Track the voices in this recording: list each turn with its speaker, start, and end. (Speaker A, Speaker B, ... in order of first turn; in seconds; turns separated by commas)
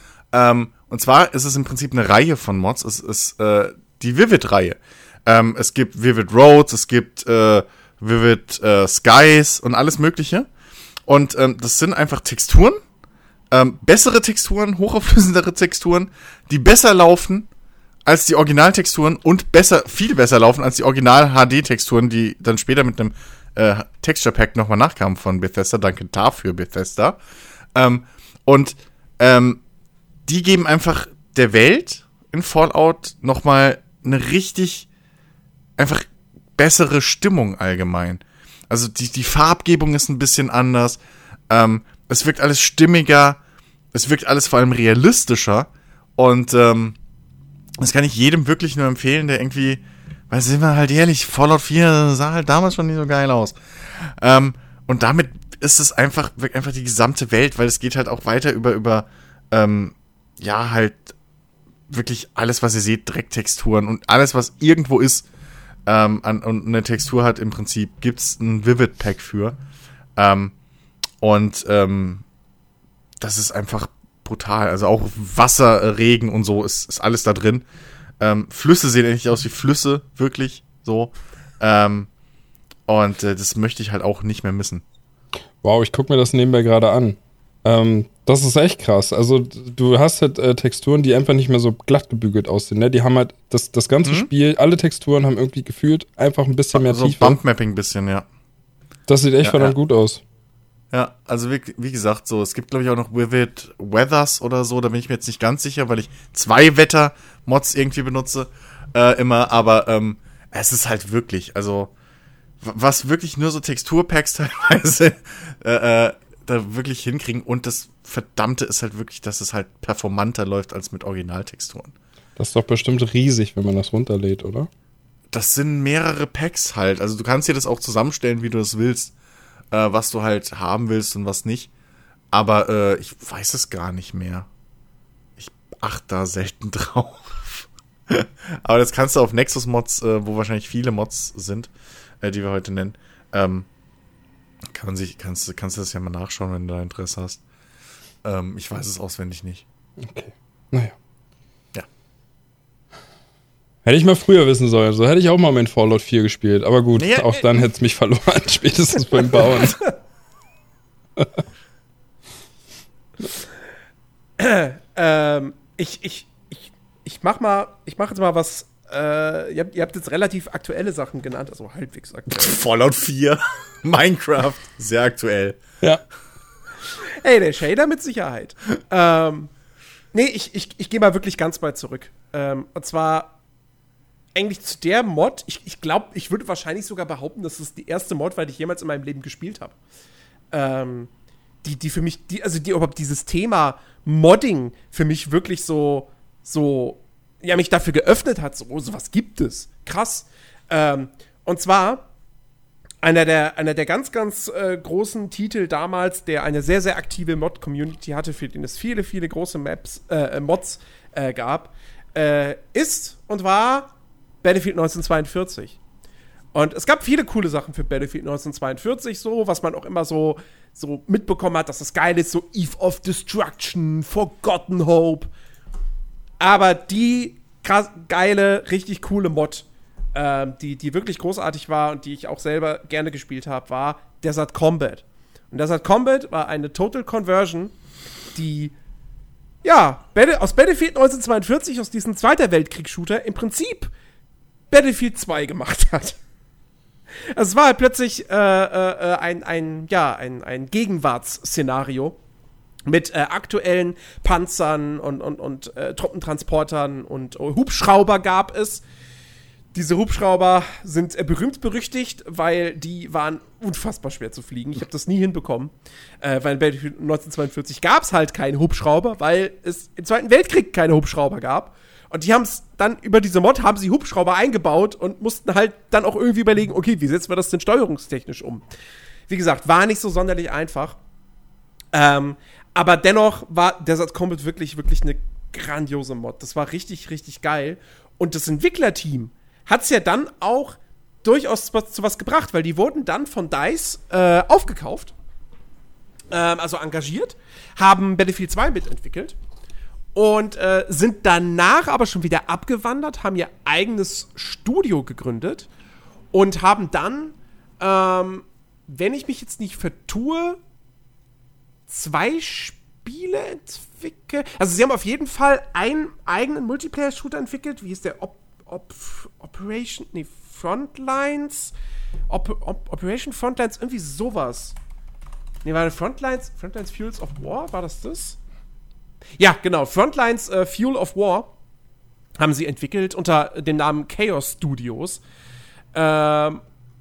Speaker A: 0.3-10.5, Speaker A: 11.1-12.8, Speaker A: 13.5-17.5, Speaker A: 18.1-27.2, Speaker A: 27.7-29.6, Speaker A: 30.3-34.9, Speaker A: 35.8-36.0, Speaker A: 36.6-41.0, Speaker A: 41.5-43.4, Speaker A: 43.9-47.0, Speaker A: 47.8-61.1, Speaker A: 61.9-65.2, Speaker A: 65.9-69.6, Speaker A: 70.2-70.5, Speaker A: 71.2-72.2, Speaker A: 73.2-77.6, Speaker A: 78.2-82.1, Speaker A: 82.9-84.8, Speaker B: 85.6-97.4, Speaker A: 94.0-94.3, Speaker A: 96.7-98.2, Speaker B: 99.1-100.2, Speaker A: 99.4-99.7, Speaker A: 100.9-111.9, Speaker A: 112.6-121.9, Speaker B: 122.4-124.7, Speaker A: 125.3-129.1, Speaker A: 129.7-131.7, Speaker A: 132.3-134.5, Speaker A: 135.4-141.7, Speaker A: 142.2-143.7, Speaker A: 144.7-147.4, Speaker A: 148.2-149.6, Speaker B: 150.0-150.9, Speaker B: 153.8-159.8, Speaker A: 157.0-157.5, Speaker C: 159.4-159.9, Speaker B: 161.2-161.4, Speaker C: 164.4-172.6, Speaker A: 172.3-175.6, Speaker C: 177.2-179.5, Speaker C: 180.1-183.3, Speaker C: 184.3-189.7, Speaker C: 190.5-191.1, Speaker C: 191.6-202.1, Speaker C: 203.0-213.9, Speaker C: 214.4-215.8, Speaker C: 216.5-225.3, Speaker C: 226.4-237.7, Speaker C: 238.3-238.7, Speaker C: 239.6-243.9, Speaker C: 244.7-246.2, Speaker C: 247.3-252.2, Speaker C: 252.9-258.8, Speaker C: 259.7-278.6, Speaker C: 279.3-281.0, Speaker C: 281.9-295.1, Speaker C: 296.3-299.4, Speaker C: 300.1-305.7, Speaker C: 306.3-310.6, Speaker C: 311.9-321.7, Speaker C: 322.3-324.8, Speaker C: 325.6-328.4, Speaker C: 329.4-331.5, Speaker C: 332.4-335.2, Speaker C: 335.9-336.6